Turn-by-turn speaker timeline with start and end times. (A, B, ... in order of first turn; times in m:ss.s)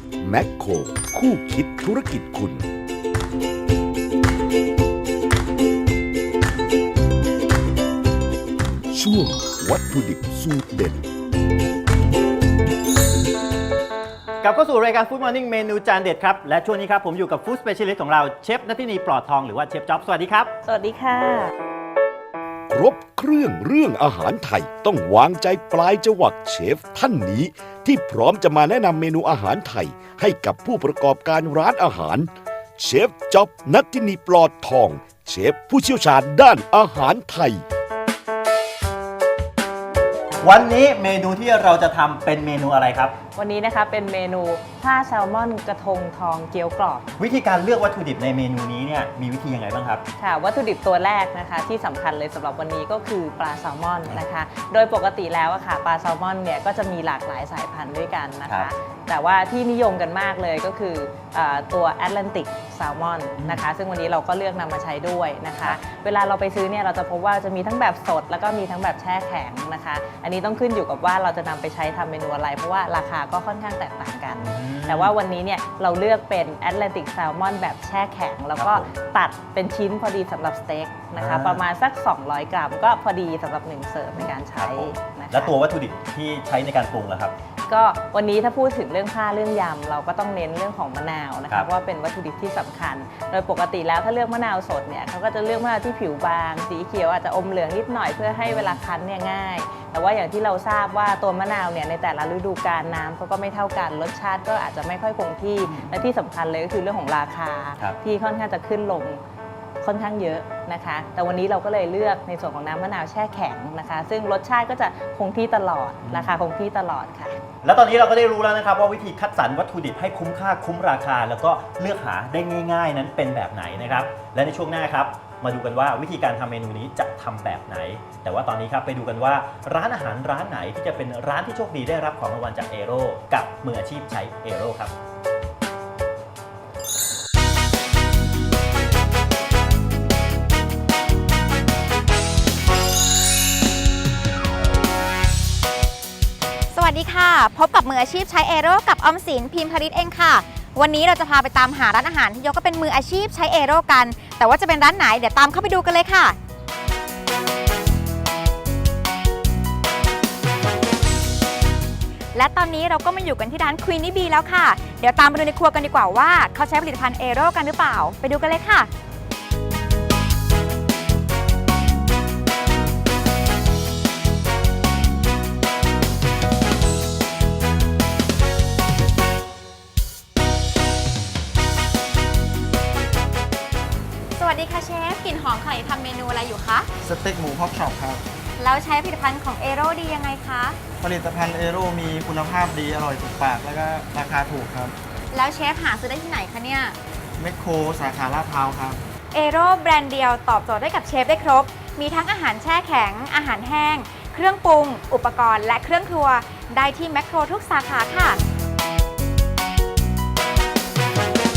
0:00.2-0:02.7 A
0:08.9-0:11.0 A
0:14.4-0:20.5 B
0:20.6-0:21.5 C
0:22.7-0:37.6 A
0:40.4-0:43.2 B
0:43.4-0:47.1 C
0:47.2-0:50.0 B
0:50.2-1:25.5 C
1:03.4-1:03.6 B
1:14.4-1:15.1 B
1:18.6-1:18.9 B
1:21.2-1:21.6 B
1:24.5-1:27.3 B
1:27.7-1:49.2 C
1:45.6-1:46.0 B
1:49.8-1:57.4 C
1:56.0-1:56.3 B
1:57.6-2:14.9 B
2:26.7-2:36.4 D
2:42.3-2:48.9 D
3:04.4-3:06.9 D
3:07.0-3:08.2 E
3:08.6-3:10.8 D
3:11.0-3:14.9 E
3:15.3-3:17.0 D
3:17.4-3:19.0 E
3:19.3-3:28.4 D